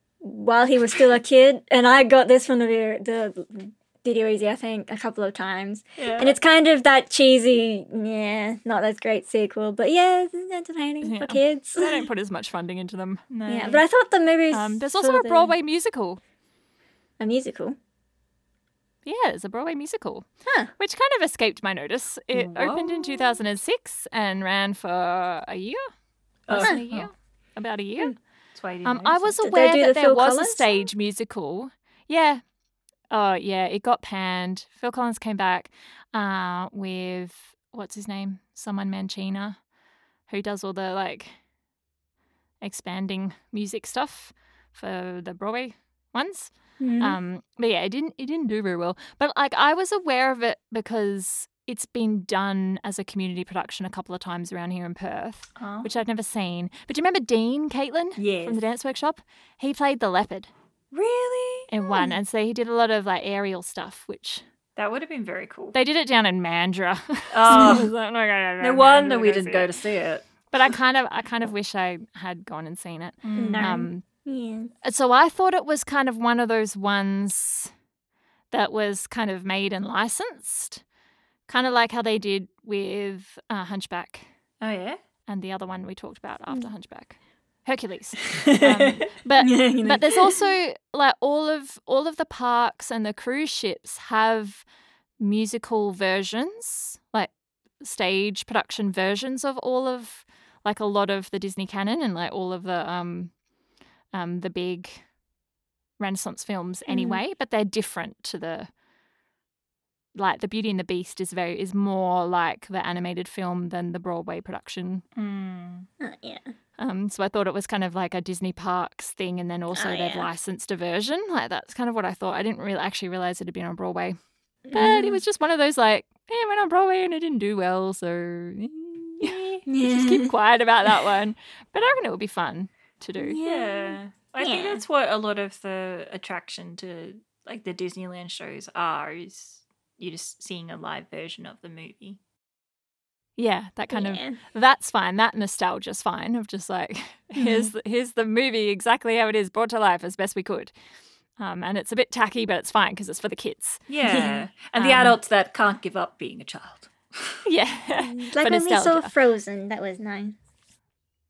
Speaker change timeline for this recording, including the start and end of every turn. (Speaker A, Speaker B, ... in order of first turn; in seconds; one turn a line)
Speaker A: 0.2-12.0
Speaker B: 6.0-6.4
Speaker C: 11.0-13.2
Speaker B: 13.3-13.8
Speaker A: 13.5-15.5
Speaker C: 14.5-16.2
Speaker A: 17.2-17.8
Speaker C: 19.0-20.2
Speaker A: 20.5-20.7
Speaker C: 20.8-25.8
Speaker B: 22.3-23.4
Speaker B: 26.5-27.1
Speaker C: 26.5-28.1
Speaker B: 28.5-29.4
Speaker C: 28.8-32.4
Speaker A: 29.4-30.8
Speaker C: 33.1-39.6
Speaker C: 40.3-41.4
Speaker C: 42.6-60.5
Speaker A: 46.8-47.2
Speaker B: 55.5-55.9
Speaker B: 58.2-58.6
Speaker B: 60.9-61.7
Speaker C: 61.7-64.4
Speaker A: 61.9-62.1
Speaker B: 64.8-65.7
Speaker C: 65.7-69.7
Speaker B: 67.3-67.9
Speaker B: 68.6-70.3
Speaker C: 70.5-74.0
Speaker B: 73.2-73.8
Speaker A: 73.3-74.7
Speaker C: 74.8-77.7
Speaker C: 78.5-80.8
Speaker C: 81.5-84.3
Speaker B: 84.6-85.0
Speaker C: 85.3-94.7
Speaker B: 88.4-89.0
Speaker A: 89.4-90.4
Speaker C: 95.2-103.3
Speaker C: 104.1-105.0
Speaker C: 106.0-108.7
Speaker A: 106.9-107.2
Speaker C: 110.1-115.0
Speaker B: 115.1-115.9
Speaker A: 116.0-116.5
Speaker C: 116.8-124.2
Speaker A: 119.7-120.3
Speaker A: 124.7-125.2
Speaker C: 124.7-133.4
Speaker A: 129.7-130.3
Speaker A: 133.2-134.8
Speaker B: 133.4-142.2
Speaker C: 143.4-150.7
Speaker A: 143.9-144.4
Speaker C: 151.4-153.9
Speaker B: 153.9-157.4
Speaker A: 154.0-154.4
Speaker C: 154.8-155.2
Speaker C: 157.4-159.1
Speaker A: 158.0-160.4